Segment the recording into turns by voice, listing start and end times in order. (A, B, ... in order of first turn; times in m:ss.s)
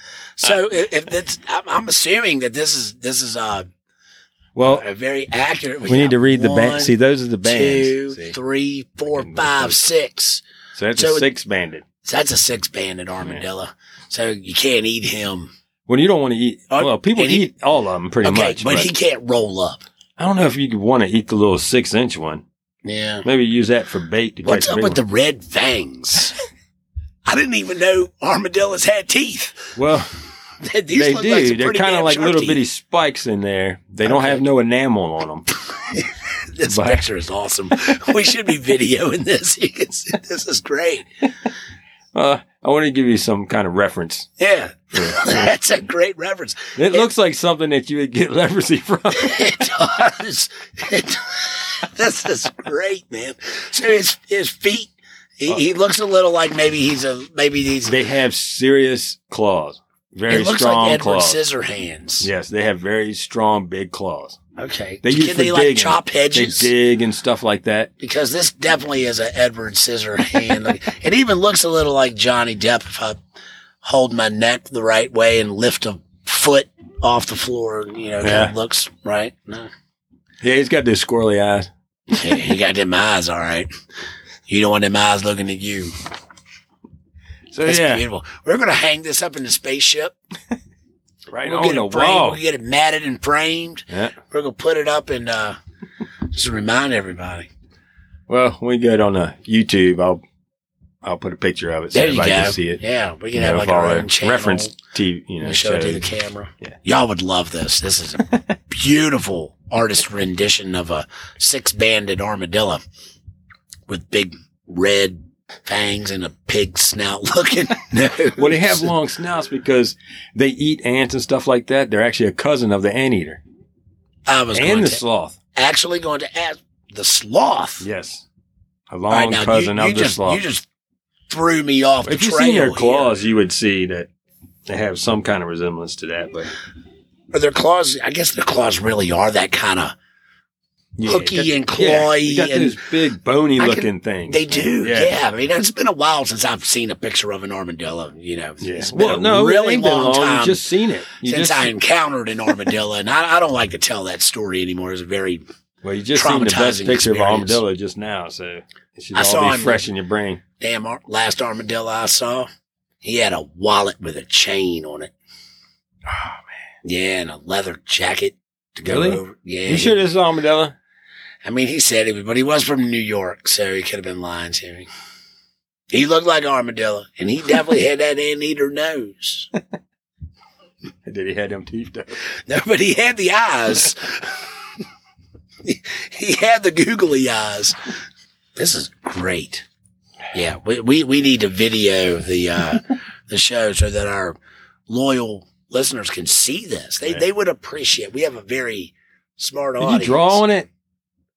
0:00.4-0:03.6 A
0:04.5-0:04.8 B
0:04.6-0:10.4 A
0:05.9-0:08.4 B
0:09.1-0:09.8 B
0:10.8-0:11.8 B
0:10.9-0:11.3 A
0:12.0-0:15.5 A
0:15.9-0:18.9 B
0:16.7-0:17.5 A
0:18.2-0:19.8 A
0:20.2-0:22.4 B
0:22.8-0:23.2 A
0:23.2-0:25.0 B
0:24.4-0:26.4 A
0:27.2-0:29.8 A
0:29.8-0:30.1 B
0:30.6-0:32.6 A
0:30.9-0:35.5 B
0:34.0-0:34.4 A
0:35.9-0:41.1 A
0:36.7-0:37.0 B
0:42.1-0:44.3 B
0:44.4-0:47.1 A
0:45.0-0:45.3 B
0:46.8-0:49.7 B
0:49.1-0:58.0 A
0:57.9-1:01.4 B
1:00.3-1:02.3 A
1:02.2-1:04.4 B
1:04.6-1:06.7 A
1:05.0-1:07.9 B
1:08.0-1:13.2 A
1:13.8-1:19.7 A
1:18.2-1:18.5 B
1:20.4-1:21.7 B
1:22.1-1:23.7 A
1:24.5-1:25.9 A
1:27.5-1:28.0 B
1:27.6-1:30.2 A
1:31.3-1:32.4 B
1:31.4-1:35.6 A
1:36.3-1:37.5 A
1:38.3-1:40.2 B
1:41.0-1:42.8 B
1:41.9-1:44.8 A
1:43.3-1:46.1 B
1:45.4-1:52.8 A
1:53.9-1:58.9 A
1:58.4-2:03.4 B
2:04.3-2:05.0 A
2:04.5-2:05.4 B
2:05.5-2:07.9 A
2:07.8-2:08.2 B
2:08.9-2:10.4 B
2:09.1-2:10.6 A
2:11.3-2:13.1 A
2:12.0-2:14.1 B
2:14.7-2:16.5 B
2:17.3-2:20.0 A
2:21.0-2:25.1 B
2:21.0-2:22.8 A
2:23.6-2:30.6 A
2:28.6-2:31.7 B
2:31.2-2:35.4 A
2:35.8-2:40.4 B
2:36.1-2:37.6 A
2:39.1-2:39.9 A
2:40.6-2:42.5 A
2:43.0-2:45.1 A
2:46.1-2:46.4 B
2:46.8-2:50.0 A
2:48.9-2:50.8 B
2:51.4-2:54.9 A
2:55.9-2:59.5 A
3:01.0-3:02.1 B
3:02.5-3:04.3 A
3:05.6-3:07.8 A
3:08.6-3:09.6 A
3:10.3-3:14.4 A
3:14.9-3:20.4 A
3:19.8-3:20.7 B